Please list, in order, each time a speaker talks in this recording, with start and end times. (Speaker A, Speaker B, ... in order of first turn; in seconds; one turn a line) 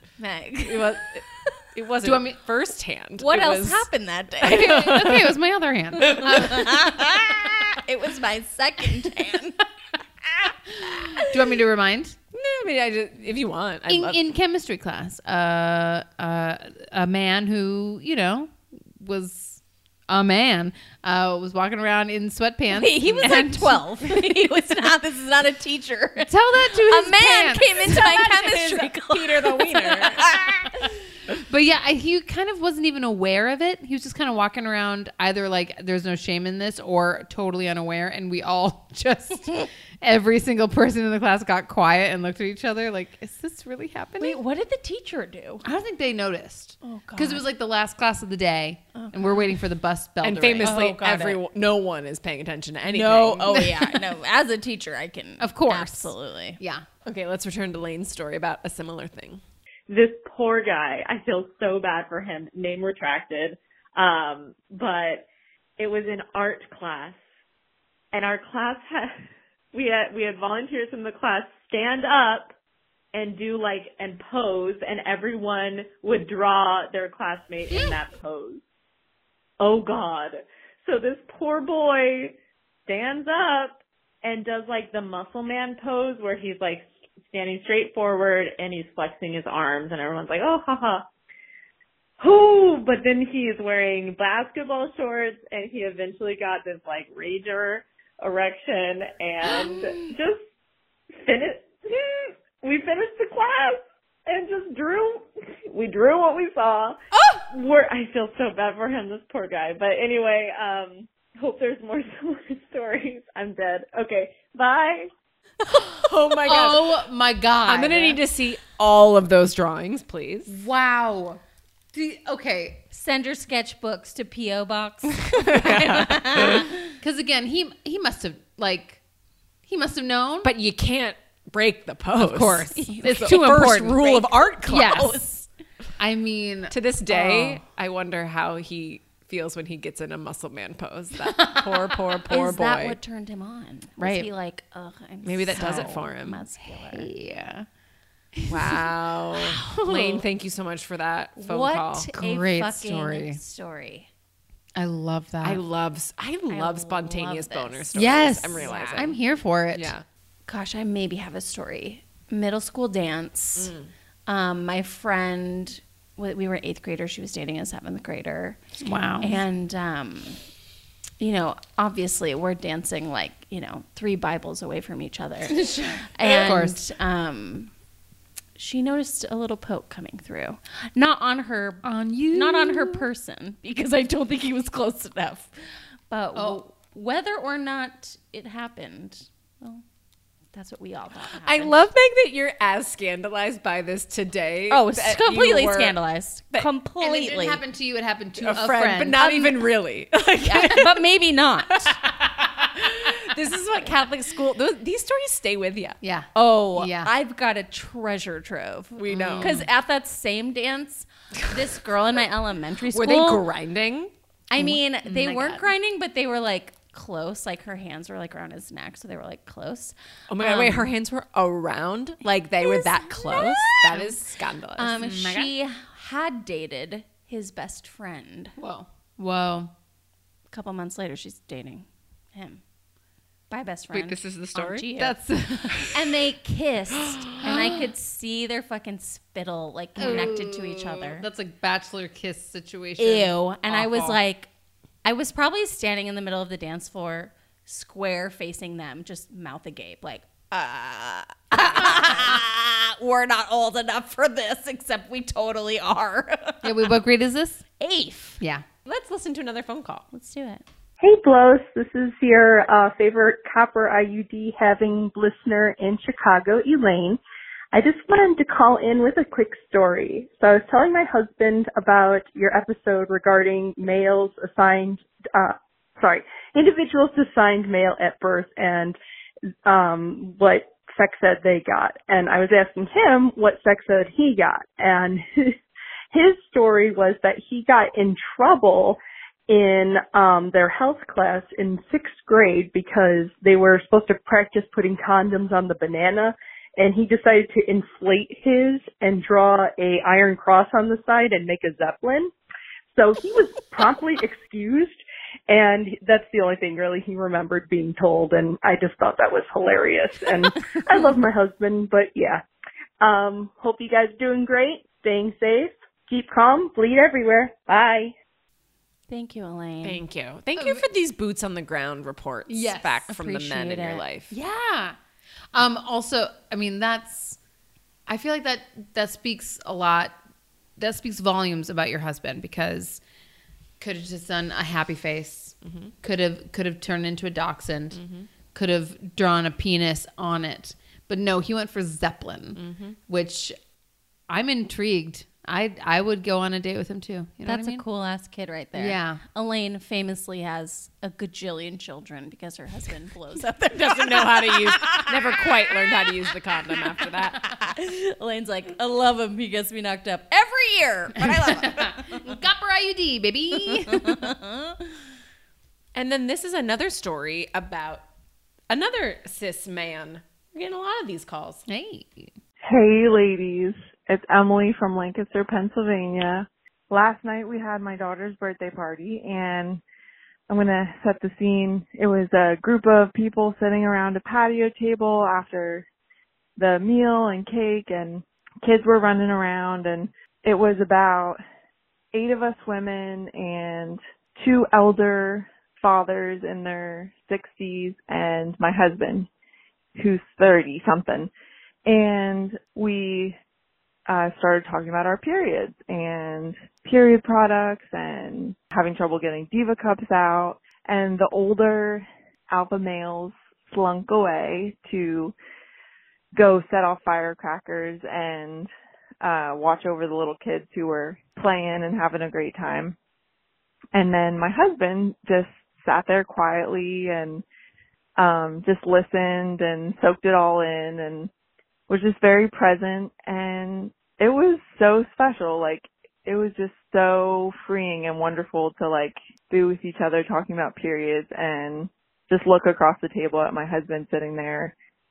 Speaker A: 0.2-0.9
Speaker B: 0.6-3.9
Speaker C: 2.0-2.4
Speaker A: 3.2-4.9
Speaker C: 4.4-7.3
Speaker B: 4.4-5.3
Speaker A: 6.2-9.6
Speaker C: 11.2-12.2
Speaker B: 12.3-14.2
Speaker C: 13.9-24.2
Speaker A: 22.7-30.9
Speaker C: 26.2-28.5
Speaker B: 28.3-30.3
Speaker C: 31.4-44.4
Speaker A: 44.2-45.6
Speaker C: 45.6-50.8
Speaker A: 46.8-47.4
Speaker A: 48.9-49.5
Speaker B: 50.2-53.7
Speaker A: 50.6-51.4
Speaker A: 52.9-56.6
Speaker C: 53.5-53.8
Speaker C: 55.4-56.8
Speaker B: 57.0-59.4
Speaker D: 59.9-65.3
Speaker D: 65.8-67.2
Speaker D: 68.1-69.1
Speaker D: 69.7-72.5
Speaker D: 73.1-78.6
Speaker C: 77.7-78.0
Speaker D: 79.6-82.3
Speaker D: 82.9-91.1
Speaker D: 92.2-100.4
Speaker D: 101.2-107.0
Speaker D: 107.5-115.1
Speaker B: 115.9-116.9
Speaker C: 116.4-118.2
Speaker B: 117.6-120.5
Speaker C: 120.5-121.4
Speaker C: 121.9-122.8
Speaker A: 122.9-126.7
Speaker B: 125.3-126.7
Speaker C: 126.8-129.0
Speaker C: 129.6-130.5
Speaker B: 130.4-135.2
Speaker C: 132.2-135.5
Speaker A: 132.8-133.8
Speaker C: 136.0-137.6
Speaker B: 136.7-143.0
Speaker C: 141.2-142.0
Speaker A: 142.3-147.1
Speaker C: 144.0-144.3
Speaker B: 145.2-146.4
Speaker C: 145.5-145.9
Speaker C: 146.6-147.7
Speaker C: 148.3-148.8
Speaker B: 148.5-152.1
Speaker A: 149.6-150.2
Speaker A: 151.3-154.1
Speaker C: 152.1-153.4
Speaker C: 154.7-155.6
Speaker B: 155.4-159.2
Speaker A: 156.5-157.9
Speaker C: 157.9-159.9
Speaker A: 158.6-159.1
Speaker B: 159.7-160.0
Speaker A: 160.4-163.7
Speaker B: 163.6-163.9
Speaker A: 164.3-168.6
Speaker C: 168.8-169.4
Speaker A: 169.2-170.4
Speaker A: 171.2-177.7
Speaker C: 175.5-176.8
Speaker A: 178.6-185.5
Speaker C: 181.8-183.1
Speaker A: 186.1-189.8
Speaker C: 186.3-186.6
Speaker A: 190.5-191.8
Speaker B: 191.4-196.0
Speaker A: 194.7-197.6
Speaker C: 197.0-199.6
Speaker B: 198.4-201.0
Speaker A: 200.4-201.9
Speaker C: 200.5-200.8
Speaker B: 201.8-206.0
Speaker C: 206.0-207.1
Speaker A: 206.3-213.4
Speaker B: 208.9-209.6
Speaker C: 209.1-209.7
Speaker B: 212.9-214.1
Speaker A: 214.5-220.9
Speaker C: 214.6-215.7
Speaker B: 220.3-225.0
Speaker A: 222.6-224.1
Speaker A: 224.8-228.5
Speaker C: 225.0-225.5
Speaker C: 228.6-229.7
Speaker A: 230.5-232.6
Speaker A: 233.5-235.2
Speaker B: 233.9-234.9
Speaker C: 234.9-235.9
Speaker A: 235.8-241.2
Speaker C: 237.4-237.9
Speaker C: 240.0-244.2
Speaker A: 243.0-244.5
Speaker A: 245.0-256.9
Speaker C: 256.6-257.6
Speaker A: 257.8-258.4
Speaker C: 258.4-258.6
Speaker B: 258.8-260.1
Speaker A: 260.1-260.6
Speaker E: 261.0-267.2
Speaker E: 267.7-279.0
Speaker E: 279.6-285.6
Speaker E: 286.1-302.3
Speaker E: 302.9-312.4
Speaker E: 313.0-318.1
Speaker A: 319.1-320.0
Speaker B: 319.8-324.3
Speaker C: 320.6-320.9
Speaker C: 322.5-323.1
Speaker A: 323.1-324.0
Speaker C: 324.3-325.0
Speaker C: 325.5-327.4
Speaker C: 328.1-330.1
Speaker C: 330.8-333.0
Speaker C: 333.8-343.6
Speaker B: 335.6-335.9
Speaker B: 337.9-338.3
Speaker B: 342.6-343.0
Speaker C: 344.3-347.8
Speaker A: 347.4-362.3
Speaker C: 348.7-349.2
Speaker B: 353.7-357.4
Speaker C: 361.2-364.3
Speaker A: 363.9-364.8
Speaker B: 365.9-368.0
Speaker B: 368.7-371.6
Speaker C: 371.7-372.3
Speaker F: 372.6-379.8
Speaker F: 380.5-385.9
Speaker F: 386.6-391.4
Speaker F: 392.1-399.3
Speaker F: 399.9-401.3
Speaker F: 401.9-403.4
Speaker F: 404.1-415.3
Speaker F: 416.3-418.7
Speaker F: 419.2-422.9
Speaker F: 423.9-427.4
Speaker F: 428.2-431.3
Speaker F: 431.9-444.7